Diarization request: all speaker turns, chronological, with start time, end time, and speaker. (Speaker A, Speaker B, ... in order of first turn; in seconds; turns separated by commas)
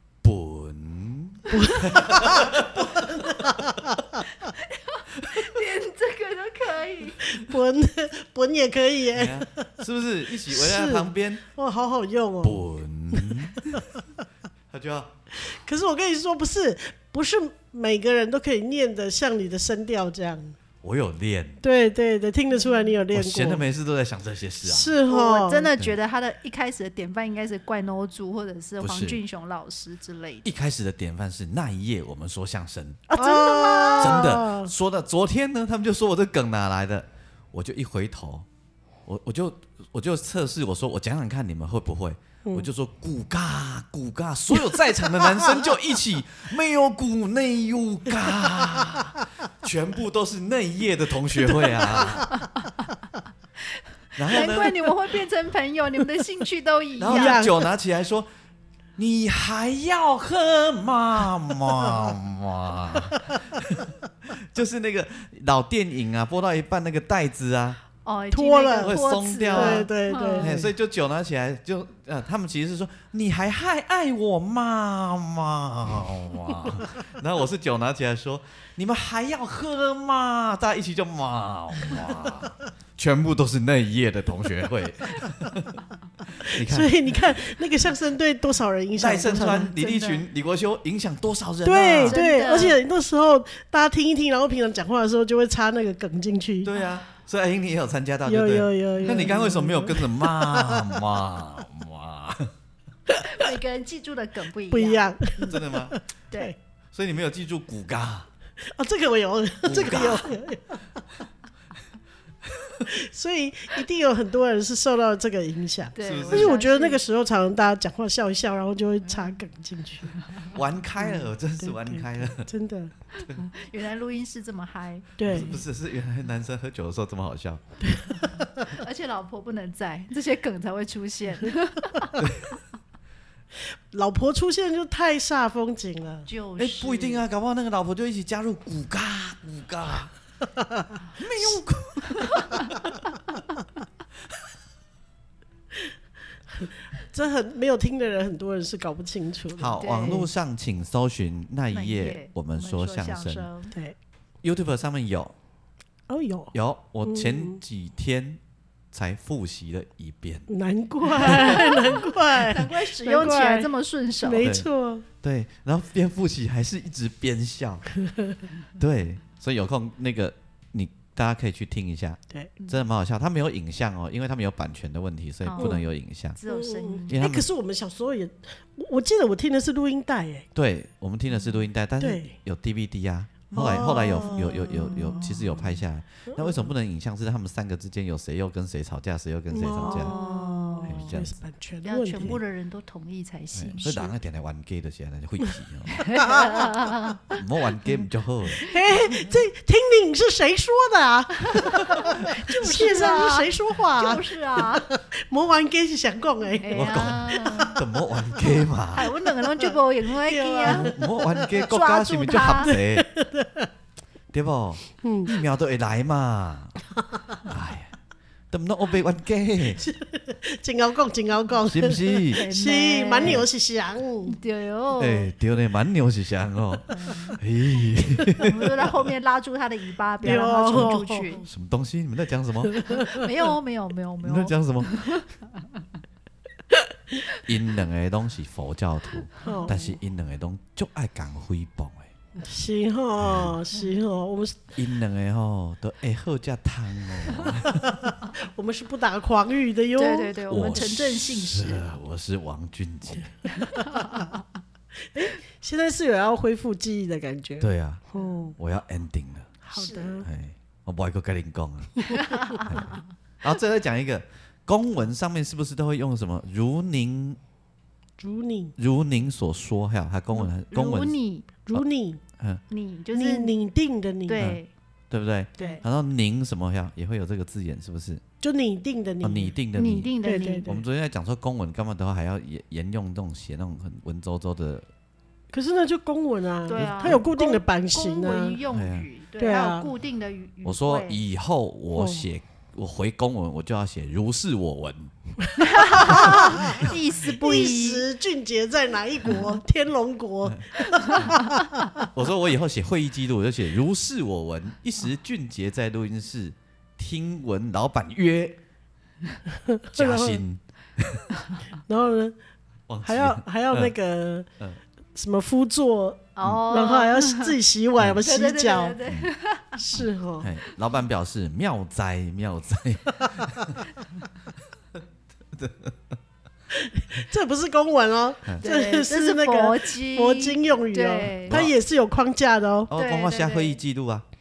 Speaker A: 0.2-3.5, Speaker B: 1.5-4.0, Speaker C: 4.3-7.4, Speaker B: 7.3-9.7, Speaker A: 9.1-11.4, Speaker B: 10.5-13.8, Speaker A: 12.4-13.8, Speaker A: 14.7-15.1, Speaker B: 15.4-20.6, Speaker A: 20.8-21.6, Speaker B: 21.6-23.6, Speaker A: 23.1-25.0, Speaker B: 24.6-25.7, Speaker C: 25.1-30.5, Speaker A: 28.8-29.2, Speaker A: 30.4-33.1, Speaker B: 33.1-34.7, Speaker C: 33.1-34.2, Speaker A: 34.0-38.5, Speaker A: 39.1-52.5, Speaker B: 51.6-52.2, Speaker C: 52.4-52.7, Speaker A: 54.2-54.9, Speaker C: 54.2-57.4, Speaker A: 57.0-58.3, Speaker B: 57.1-57.7, Speaker A: 59.0-67.8, Speaker C: 68.0-70.6, Speaker B: 68.3-69.0, Speaker A: 68.8-85.8, Speaker B: 69.5-70.7, Speaker A: 86.3-86.9, Speaker B: 86.5-89.7, Speaker A: 89.0-92.2, Speaker C: 89.3-90.2, Speaker B: 91.7-96.7, Speaker C: 92.1-92.8, Speaker A: 96.6-102.5, Speaker B: 98.3-100.9, Speaker B: 103.1-103.3, Speaker C: 103.2-105.5, Speaker B: 104.7-106.5, Speaker A: 105.5-106.0, Speaker A: 106.9-108.3, Speaker B: 108.6-110.9, Speaker A: 109.6-110.3, Speaker A: 112.5-112.8, Speaker B: 112.9-120.3, Speaker C: 116.0-117.0, Speaker A: 116.0-116.6, Speaker A: 120.5-122.5, Speaker B: 121.0-122.9, Speaker C: 123.2-125.3, Speaker B: 125.2-125.6, Speaker A: 125.3-127.6, Speaker B: 127.8-128.5, Speaker C: 128.6-132.2, Speaker A: 132.2-132.6, Speaker B: 133.9-136.3, Speaker C: 136.3-137.2, Speaker A: 136.6-140.1, Speaker A: 141.2-142.9, Speaker C: 142.2-142.7, Speaker B: 146.5-150.3, Speaker A: 149.6-153.5, Speaker C: 149.8-150.3, Speaker C: 151.7-153.8, Speaker A: 154.4-155.3, Speaker B: 156.1-157.6, Speaker A: 156.5-158.4, Speaker A: 158.9-160.5, Speaker B: 160.5-165.1, Speaker C: 161.2-164.5, Speaker A: 161.2-161.6, Speaker A: 164.4-164.7, Speaker A: 165.2-167.9, Speaker A: 168.8-176.4, Speaker C: 175.4-175.8, Speaker B: 175.6-175.8, Speaker C: 176.4-177.2, Speaker B: 176.5-180.5, Speaker A: 177.1-177.5, Speaker A: 180.6-190.2, Speaker B: 182.0-182.4, Speaker C: 183.5-185.8, Speaker B: 183.5-185.3, Speaker B: 186.3-186.7, Speaker B: 189.5-192.4, Speaker C: 189.8-191.1, Speaker A: 190.8-191.3, Speaker C: 191.8-194.1, Speaker A: 193.5-196.1, Speaker C: 195.9-197.4, Speaker B: 196.3-196.7, Speaker A: 197.3-198.6, Speaker C: 198.5-198.9, Speaker B: 198.7-208.6, Speaker C: 201.4-204.9, Speaker C: 206.6-207.8, Speaker A: 206.7-209.1, Speaker C: 208.9-210.9, Speaker B: 209.6-211.6, Speaker A: 210.7-213.1, Speaker C: 211.7-212.8, Speaker B: 212.7-213.7, Speaker A: 214.3-216.8, Speaker B: 215.0-215.3, Speaker A: 217.4-217.9, Speaker A: 218.5-219.8, Speaker B: 219.8-224.4, Speaker A: 221.7-222.4, Speaker C: 222.3-223.5, Speaker C: 224.3-225.3, Speaker A: 225.0-228.8, Speaker C: 226.9-227.4, Speaker C: 228.4-231.5, Speaker B: 230.2-231.4, Speaker A: 231.4-233.0, Speaker B: 232.7-233.3, Speaker C: 232.9-235.8, Speaker A: 234.2-235.2, Speaker A: 237.4-242.1, Speaker B: 239.4-240.0, Speaker B: 242.4-244.7, Speaker A: 243.2-243.6, Speaker A: 244.8-248.0, Speaker B: 247.8-250.3, Speaker C: 250.0-251.8, Speaker A: 250.5-253.3, Speaker C: 253.5-254.4, Speaker B: 255.1-258.6, Speaker A: 257.6-258.0, Speaker A: 258.6-259.5, Speaker B: 259.6-260.3, Speaker C: 259.7-260.2, Speaker A: 260.2-267.4, Speaker C: 262.1-262.9, Speaker B: 268.2-268.8, Speaker A: 268.8-271.1, Speaker C: 270.7-271.5, Speaker B: 271.7-272.2, Speaker C: 272.7-273.6, Speaker B: 273.1-274.4, Speaker C: 274.3-274.7, Speaker A: 275.1-278.2, Speaker C: 275.6-275.8, Speaker B: 278.4-279.6, Speaker A: 279.2-280.1, Speaker C: 279.8-280.7, Speaker B: 280.2-280.8, Speaker A: 280.6-284.9, Speaker B: 285.5-288.6, Speaker C: 286.7-291.2, Speaker A: 286.7-287.2, Speaker A: 288.7-289.1, Speaker B: 289.4-289.9, Speaker A: 290.6-295.1, Speaker B: 291.9-292.2, Speaker B: 295.4-302.1, Speaker C: 295.6-298.1, Speaker A: 296.0-296.9, Speaker C: 300.8-301.3, Speaker A: 302.1-308.6, Speaker B: 309.7-310.4, Speaker A: 309.9-311.3, Speaker B: 311.9-312.4, Speaker A: 312.9-313.9, Speaker B: 313.0-314.5, Speaker B: 315.1-319.0, Speaker C: 316.4-317.6, Speaker C: 318.1-319.8, Speaker B: 319.8-320.5, Speaker A: 320.0-323.8, Speaker A: 325.5-326.0, Speaker B: 326.7-332.9, Speaker C: 328.6-331.6, Speaker A: 332.9-334.3, Speaker C: 332.9-333.8